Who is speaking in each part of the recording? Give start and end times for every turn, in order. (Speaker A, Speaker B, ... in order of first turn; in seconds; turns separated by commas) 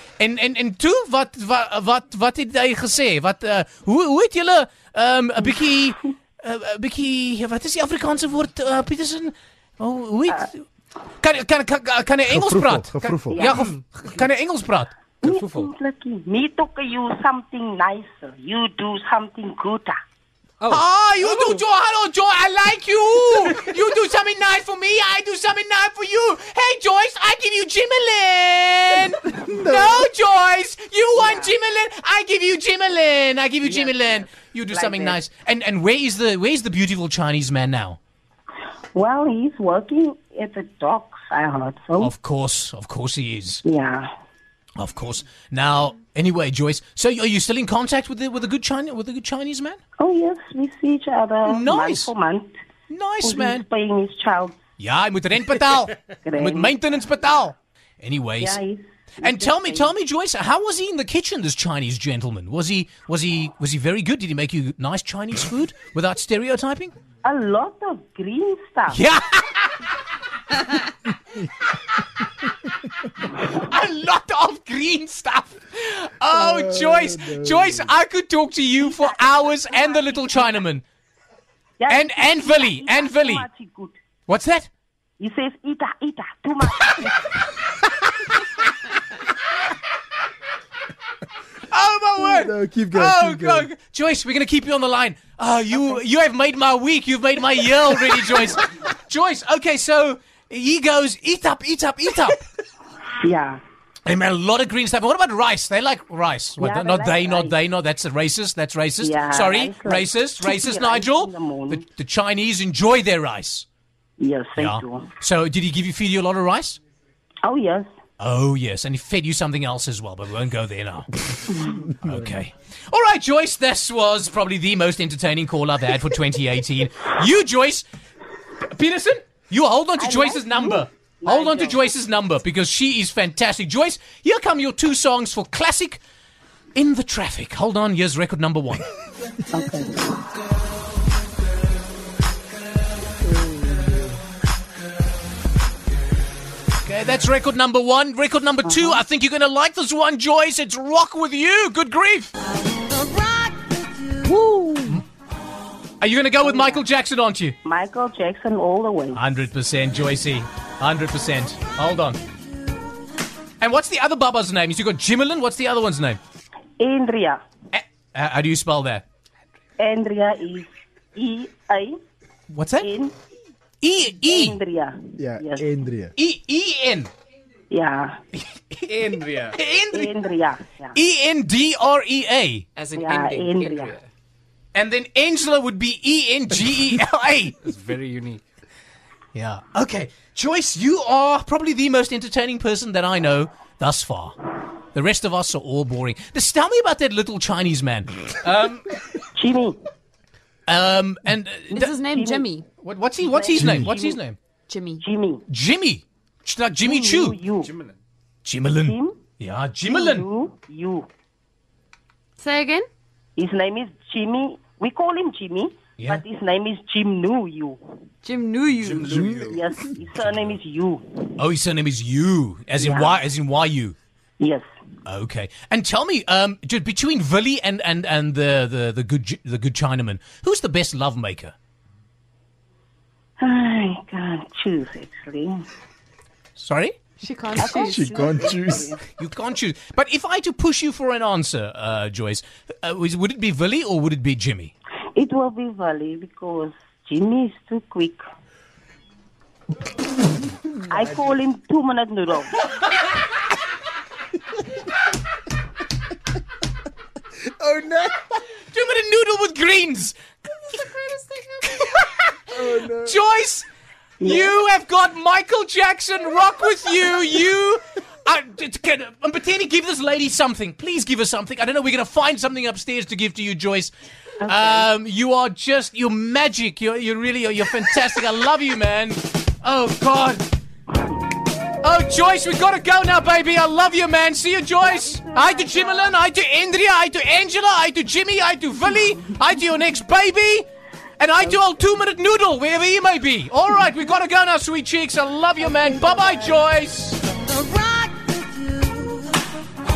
Speaker A: 0.2-10.6, Speaker A: 11.2-14.9, Speaker B: 12.3-13.4, Speaker C: 13.3-13.7, Speaker C: 15.2-19.9, Speaker D: 15.2-15.7, Speaker A: 20.7-38.0, Speaker B: 29.5-30.0, Speaker C: 31.2-31.5, Speaker C: 33.6-35.2, Speaker C: 38.9-42.1, Speaker A: 42.0-43.6, Speaker C: 43.6-44.1, Speaker A: 44.8-49.8, Speaker C: 50.0-52.5, Speaker A: 51.5-52.1, Speaker A: 52.9-53.6, Speaker C: 53.2-54.6, Speaker A: 54.8-58.6, Speaker C: 56.2-56.7, Speaker C: 58.4-59.9, Speaker A: 59.2-66.9, Speaker C: 67.2-69.0, Speaker A: 68.9-69.9, Speaker A: 73.2-80.8, Speaker B: 76.3-77.7, Speaker C: 81.8-84.0, Speaker A: 81.9-83.5, Speaker A: 84.3-84.7, Speaker C: 85.2-87.3, Speaker A: 91.7-102.4, Speaker B: 92.3-93.7, Speaker C: 103.2-103.6, Speaker A: 104.0-113.7, Speaker C: 106.6-107.5, Speaker C: 109.0-111.8, Speaker C: 114.2-115.1, Speaker A: 114.6-116.8, Speaker C: 117.4-117.9, Speaker A: 118.2-127.8, Speaker A: 128.7-136.0, Speaker C: 130.0-131.8, Speaker A: 136.7-138.9, Speaker C: 139.5-140.1, Speaker B: 143.3-144.1, Speaker A: 146.8-152.3, Speaker C: 148.6-149.0, Speaker E: 152.5-154.7, Speaker A: 154.2-155.0, Speaker A: 156.0-157.6, Speaker C: 156.4-156.8, Speaker C: 157.6-159.2, Speaker A: 159.1-162.2, Speaker A: 163.6-166.2, Speaker C: 166.8-167.4, Speaker A: 167.7-169.0, Speaker C: 169.8-172.0, Speaker A: 172.5-172.9, Speaker C: 172.8-173.1, Speaker A: 173.8-174.6, Speaker C: 174.2-175.7, Speaker B: 175.2-176.1, Speaker A: 176.2-177.1, Speaker C: 177.7-178.2, Speaker A: 178.3-180.1, Speaker D: 178.9-179.6, Speaker C: 179.9-181.0, Speaker A: 180.9-182.7, Speaker D: 182.8-184.0, Speaker C: 182.9-184.0, Speaker A: 184.7-187.7, Speaker D: 187.6-188.4, Speaker A: 189.3-198.8, Speaker C: 199.3-199.8, Speaker A: 200.7-201.9, Speaker E: 201.7-202.7, Speaker C: 202.0-202.5, Speaker A: 202.8-204.4, Speaker C: 203.2-204.2, Speaker E: 204.7-205.0, Speaker C: 205.0-205.4, Speaker A: 205.5-207.4, Speaker C: 206.8-207.7, Speaker D: 207.6-207.9, Speaker A: 208.4-210.2, Speaker C: 208.8-209.2, Speaker C: 209.8-211.1, Speaker E: 212.4-212.9, Speaker C: 213.3-218.0, Speaker E: 218.2-219.2, Speaker D: 218.8-219.6, Speaker B: 219.1-219.4, Speaker C: 219.2-221.3, Speaker A: 221.4-223.9, Speaker C: 222.8-223.2, Speaker C: 224.4-224.6, Speaker A: 225.0-231.5, Speaker C: 233.4-235.6, Speaker A: 236.6-237.0, Speaker E: 237.2-238.4, Speaker C: 237.6-239.0, Speaker B: 237.6-238.9, Speaker A: 239.2-244.7, Speaker C: 245.1-248.2, Speaker C: 250.8-252.6, Speaker B: 257.4-258.3, Speaker A: 258.7-260.2, Speaker A: 260.7-263.6, Speaker E: 260.9-261.5, Speaker B: 262.5-263.2, Speaker C: 264.2-264.5, Speaker A: 264.2-273.9, Speaker C: 274.4-274.9, Speaker A: 274.5-280.4, Speaker A: 281.8-290.7, Speaker C: 284.8-286.2, Speaker A: 291.2-297.3, Speaker E: 297.4-299.4